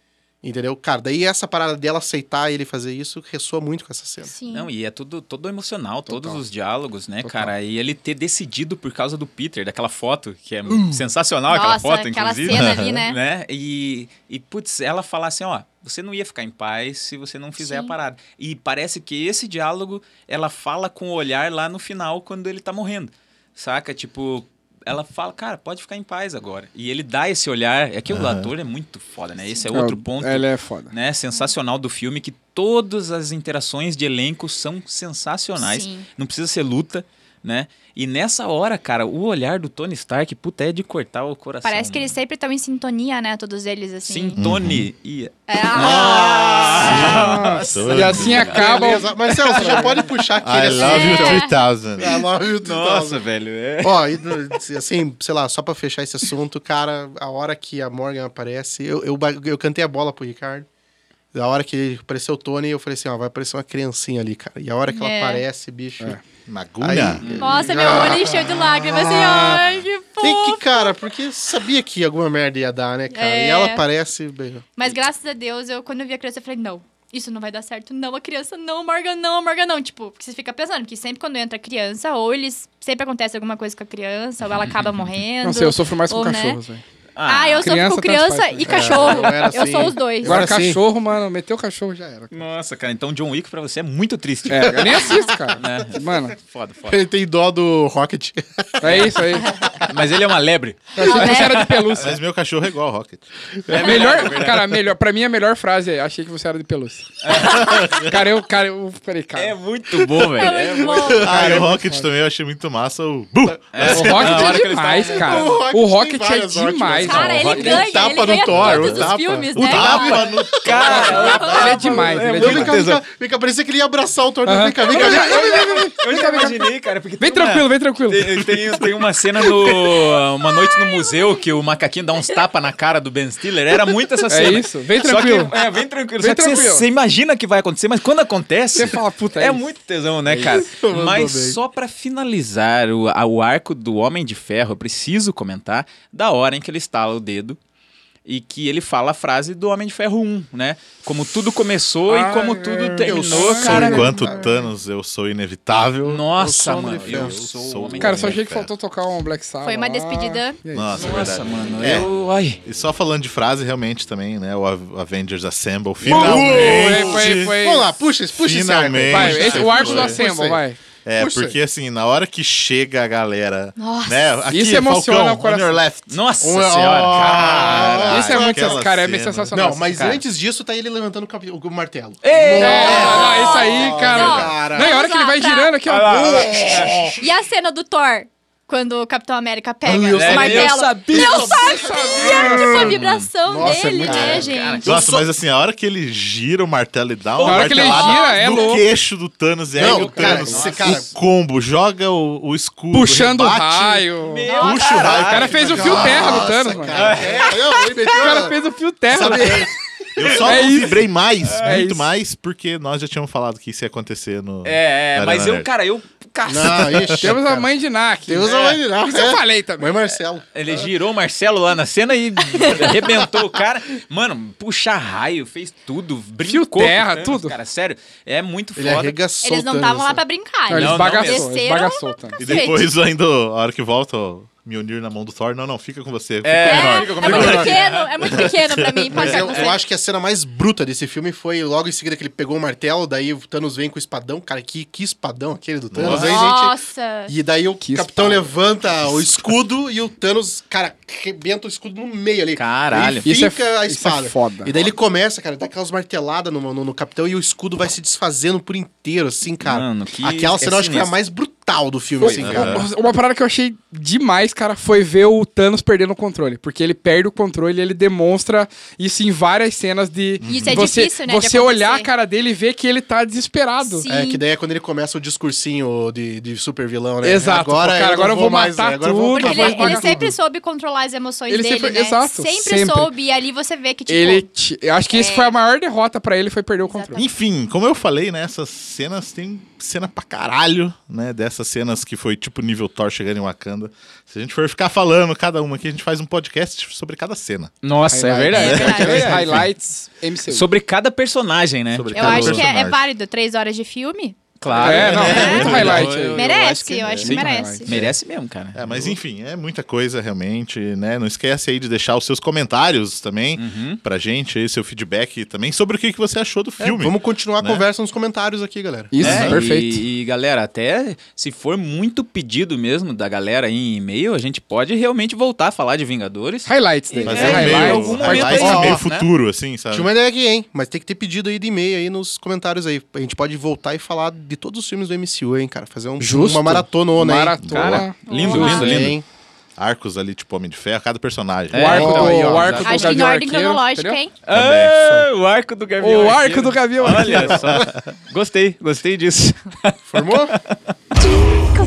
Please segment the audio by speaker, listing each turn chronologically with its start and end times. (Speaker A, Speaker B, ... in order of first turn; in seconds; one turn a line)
Speaker A: 0.4-4.3
Speaker B: 4.3-4.7
Speaker C: 4.5-42.1
Speaker D: 6.1-6.4
Speaker D: 7.2-7.5
Speaker A: 10.7-11.0
Speaker B: 11.5-13.2
Speaker E: 12.5-13.0
Speaker B: 17.6-17.9
Speaker E: 28.1-28.5
Speaker D: 29.7-30.9
Speaker B: 35.6-36.1
Speaker B: 41.6-44.4
Speaker C: 44.0-49.9
Speaker E: 44.4-44.9
Speaker B: 45.5-47.1
Speaker A: 45.8-47.2
Speaker E: 46.8-48.6
Speaker D: 47.1-50.0
Speaker A: 48.4-51.4
Speaker E: 50.4-52.2
Speaker B: 50.6-51.5
Speaker A: 52.0-53.2
Speaker C: 52.6-54.3
Speaker A: 53.8-60.7
Speaker A: 61.3-66.2
Speaker B: 64.9-65.4
Speaker E: 66.5-67.6
Speaker A: 66.8-69.6
Speaker C: 67.2-67.7
Speaker B: 67.4-71.0
Speaker A: 70.2-74.6
Speaker B: 73.1-73.8
Speaker B: 74.8-86.6
Speaker C: 84.6-84.9
Speaker D: 85.4-86.8
Speaker C: 87.2-87.7
Speaker B: 87.2-90.5
Speaker D: 87.6-89.4
Speaker A: 88.7-90.8
Speaker D: 90.2-92.4
Speaker C: 92.3-97.0
Speaker D: 94.5-96.3
Speaker A: 96.9-99.8
Speaker D: 98.8-99.5
Speaker C: 99.8-102.2
Speaker D: 100.9-102.2
Speaker B: 101.0-101.6
Speaker E: 102.0-104.1
Speaker C: 103.7-104.8
Speaker D: 103.8-107.1
Speaker C: 107.2-108.0
Speaker E: 107.5-107.9
Speaker B: 107.5-108.0
Speaker D: 108.0-109.5
Speaker C: 109.3-111.7
Speaker B: 110.3-111.6
Speaker A: 110.9-111.8
Speaker E: 111.2-114.6
Speaker C: 113.7-115.5
Speaker A: 113.8-119.5
Speaker D: 113.8-117.9
Speaker B: 117.0-120.4
Speaker C: 117.4-117.8
Speaker E: 117.9-121.4
Speaker C: 119.5-123.0
Speaker A: 120.5-125.9
Speaker B: 121.0-121.7
Speaker D: 121.4-122.8
Speaker D: 124.5-126.6
Speaker C: 125.0-147.6
Speaker D: 127.2-128.4
Speaker D: 134.3-135.5
Speaker D: 136.2-136.8
Speaker D: 138.7-139.7
Speaker A: 140.3-141.6
Speaker C: 148.2-154.1
Speaker D: 152.1-154.1
Speaker A: 153.0-154.6
Speaker E: 153.6-158.7
Speaker C: 156.0-158.4
Speaker A: 156.4-157.4
Speaker D: 158.0-161.0
Speaker B: 159.6-160.6
Speaker E: 160.7-162.1
Speaker C: 160.9-162.6
Speaker E: 162.6-167.6
Speaker A: 166.0-170.6
Speaker D: 166.1-167.8
Speaker C: 166.1-166.4
Speaker E: 168.3-170.2
Speaker D: 169.1-170.8
Speaker C: 169.4-169.6
Speaker E: 171.0-176.2
Speaker A: 171.2-171.6
Speaker B: 173.8-174.4
Speaker D: 174.5-175.8
Speaker C: 176.1-178.1
Speaker A: 176.4-178.8
Speaker E: 177.0-180.2
Speaker D: 178.1-180.2
Speaker A: 179.5-184.9
Speaker C: 182.2-183.3
Speaker D: 182.6-186.7
Speaker B: 182.6-185.8
Speaker C: 185.8-187.1
Speaker A: 186.1-187.2
Speaker B: 187.2-194.9
Speaker A: 189.8-195.3
Speaker C: 190.1-194.9
Speaker E: 194.8-206.6
Speaker C: 197.3-198.4
Speaker D: 197.4-198.8
Speaker B: 198.2-198.6
Speaker A: 199.8-201.1
Speaker C: 199.8-201.1
Speaker D: 202.9-204.5
Speaker C: 204.2-206.2
Speaker B: 204.6-204.9
Speaker A: 204.9-208.5
Speaker D: 205.2-206.9
Speaker C: 206.9-208.5
Speaker D: 208.2-209.6
Speaker A: 209.1-209.7
Speaker E: 209.2-209.5
Speaker E: 210.2-215.7
Speaker D: 210.4-211.1
Speaker C: 211.5-211.8
Speaker D: 211.6-212.1
Speaker C: 214.6-217.1
Speaker A: 216.5-217.7
Speaker E: 216.6-217.1
Speaker D: 217.2-219.9
Speaker A: 218.2-220.8
Speaker C: 218.5-218.8
Speaker C: 220.5-229.2
Speaker B: 222.5-222.9
Speaker A: 222.7-223.0
Speaker D: 226.5-227.6
Speaker A: 228.8-230.2
Speaker B: 229.4-232.9
Speaker D: 230.7-232.6
Speaker C: 230.7-231.5
Speaker E: 232.4-239.3
Speaker C: 236.4-238.5
Speaker B: 236.6-239.8
Speaker A: 239.2-262.9
Speaker C: 239.2-239.7
Speaker E: 245.9-246.3
Speaker C: 246.0-246.3
Speaker B: 246.2-247.3
Speaker D: 247.8-248.5
Speaker C: 252.5-253.3
Speaker D: 253.2-254.9
Speaker C: 259.6-261.1
Speaker C: 262.2-262.7
Speaker D: 262.2-274.1
Speaker E: 262.4-262.9
Speaker E: 270.4-270.9
Speaker B: 270.4-272.1
Speaker B: 273.8-274.4
Speaker A: 274.1-280.3
Speaker D: 277.2-280.3
Speaker B: 279.3-284.4
Speaker D: 281.5-283.1
Speaker D: 284.1-287.2
Speaker B: 285.1-285.5
Speaker B: 286.8-287.2
Speaker E: 287.1-297.7
Speaker C: 297.8-299.6
Speaker D: 298.1-300.7
Speaker B: 298.5-299.5
Speaker E: 298.6-299.6
Speaker C: 300.5-302.7
Speaker E: 301.9-303.1
Speaker B: 302.1-304.4
Speaker C: 304.6-309.1
Speaker E: 304.7-306.3
Speaker D: 304.8-306.5
Speaker B: 305.0-307.9
Speaker D: 307.2-308.0
Speaker E: 308.7-317.8
Speaker C: 313.6-314.0
Speaker A: 316.8-319.4
Speaker D: 319.1-320.0
Speaker E: 319.2-319.6
Speaker C: 319.2-329.3
Speaker D: 326.6-329.0
Speaker E: 327.2-330.1
Speaker A: 328.5-329.0
Speaker A: 329.9-337.6
Speaker D: 336.2-338.9
Speaker E: 337.6-338.1
Speaker C: 337.7-339.2
Speaker B: 338.2-339.0
Speaker A: 338.5-339.2
Speaker E: 339.8-342.4
Speaker C: 341.7-343.2
Speaker D: 341.7-344.2
Speaker A: 341.9-342.9
Speaker B: 342.8-344.4
Speaker C: 344.4-350.9
Speaker E: 344.5-345.0
Speaker D: 346.0-347.6
Speaker E: 347.5-347.9
Speaker A: 350.1-350.6